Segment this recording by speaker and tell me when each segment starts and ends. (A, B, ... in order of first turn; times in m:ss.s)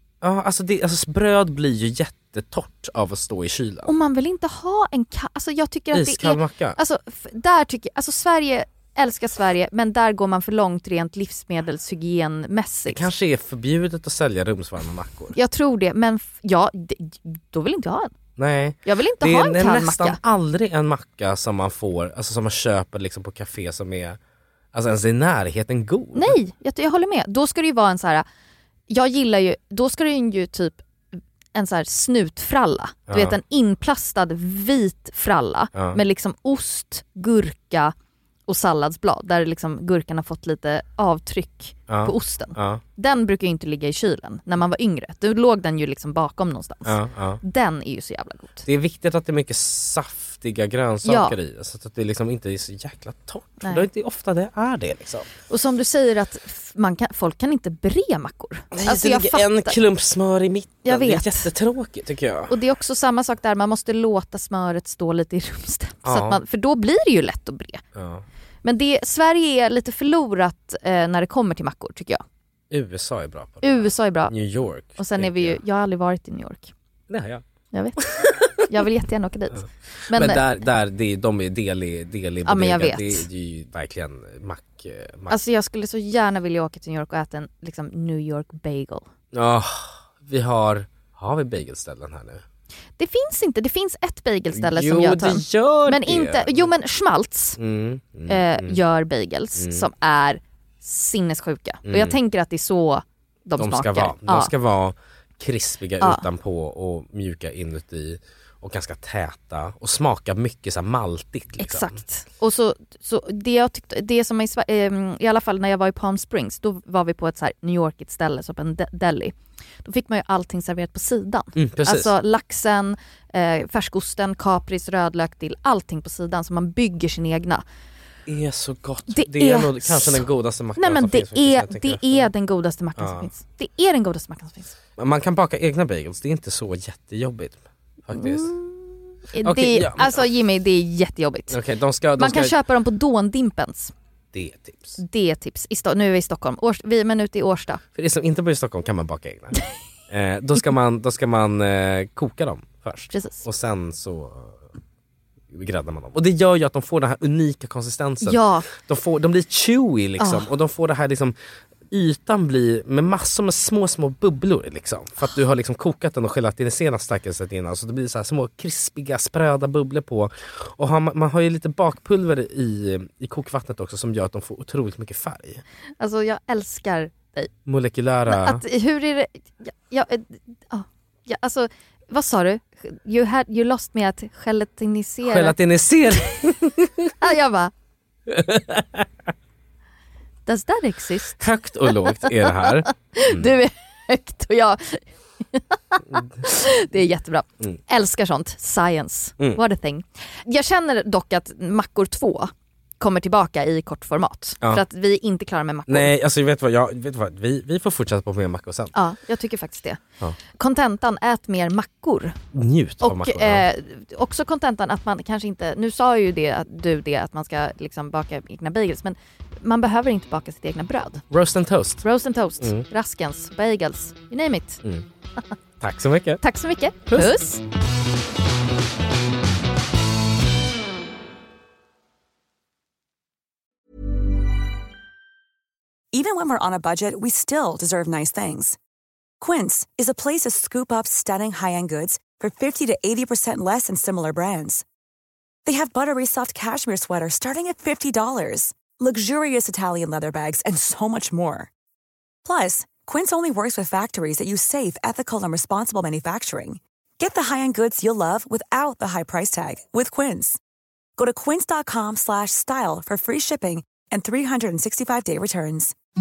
0:00.2-0:03.9 A
0:03.9-0:13.1 B
0:05.9-0:06.8 A
0:12.9-0:15.4 A
0:15.3-0:18.1 B
0:18.4-0:24.2 A
0:18.8-0:20.2 B
0:24.7-0:26.4 A
0:26.2-0:28.3 B
0:28.9-0:30.8 B
0:31.5-0:37.9 B
0:33.1-0:33.4 A
0:35.7-0:36.0 A
0:38.5-0:48.7 B
0:41.9-0:42.8 A
0:46.8-0:47.4 A
0:48.7-0:55.3 A
0:51.0-0:51.4 B
0:53.6-0:53.9 B
0:55.5-0:59.8 B
0:58.7-1:02.6 A
1:00.8-1:01.5 B
1:02.5-1:07.8 B
1:06.0-1:06.4 A
1:08.0-1:08.2 A
1:08.6-1:12.2 B
1:12.7-1:15.6 A
1:13.6-1:14.3 B
1:15.0-1:16.7 B
1:17.1-1:17.4 A
1:17.7-1:20.4 B
1:18.0-1:18.6 A
1:19.5-1:25.4 A
1:22.4-1:23.3 B
1:25.3-1:29.1 B
1:29.3-1:32.4 A
1:33.0-1:37.6 B
1:34.5-1:36.7 A
1:37.6-1:38.8 A
1:38.3-1:44.5 B
1:39.6-1:39.9 A
1:41.8-1:42.2 A
1:43.6-1:52.0 A
1:51.6-2:07.6 B
2:01.6-2:02.2 A
2:08.3-2:12.3 A
2:09.1-2:10.3 B
2:10.8-2:14.8 B
2:13.0-2:13.3 A
2:15.0-2:18.5 A
2:18.1-2:21.6 B
2:19.4-2:20.3 A
2:21.5-2:22.6 A
2:22.2-2:23.9 B
2:24.3-2:25.0 A
2:25.0-2:27.8 B
2:28.0-2:29.6 A
2:30.1-2:34.7 A
2:33.1-2:33.4 B
2:35.5-2:41.4 A
2:38.2-2:38.7 B
2:40.2-2:40.5 B
2:41.9-2:55.6 A
2:56.0-2:57.5 B
2:57.7-2:58.6 A
2:58.3-3:05.6 B
3:05.2-3:07.1 A
3:06.2-3:06.5 B
3:07.2-3:07.7 B
3:08.3-3:09.1 A
3:10.5-3:26.1 B
3:11.4-3:13.5 A
3:25.9-3:28.9 A
3:28.9-3:30.0 B
3:30.6-3:32.4 B
3:32.5-3:33.7 A
3:33.0-3:41.2 B
3:41.3-3:42.0 A
3:42.0-3:44.8 B
3:42.6-3:42.8 A
3:45.8-3:46.4 A
3:46.4-3:47.6 B
3:47.1-3:47.5 A
3:56.1-3:58.8 C
3:59.4-4:04.8 C
4:05.6-4:11.7 C
4:12.4-4:20.6 C
4:21.2-4:25.9 C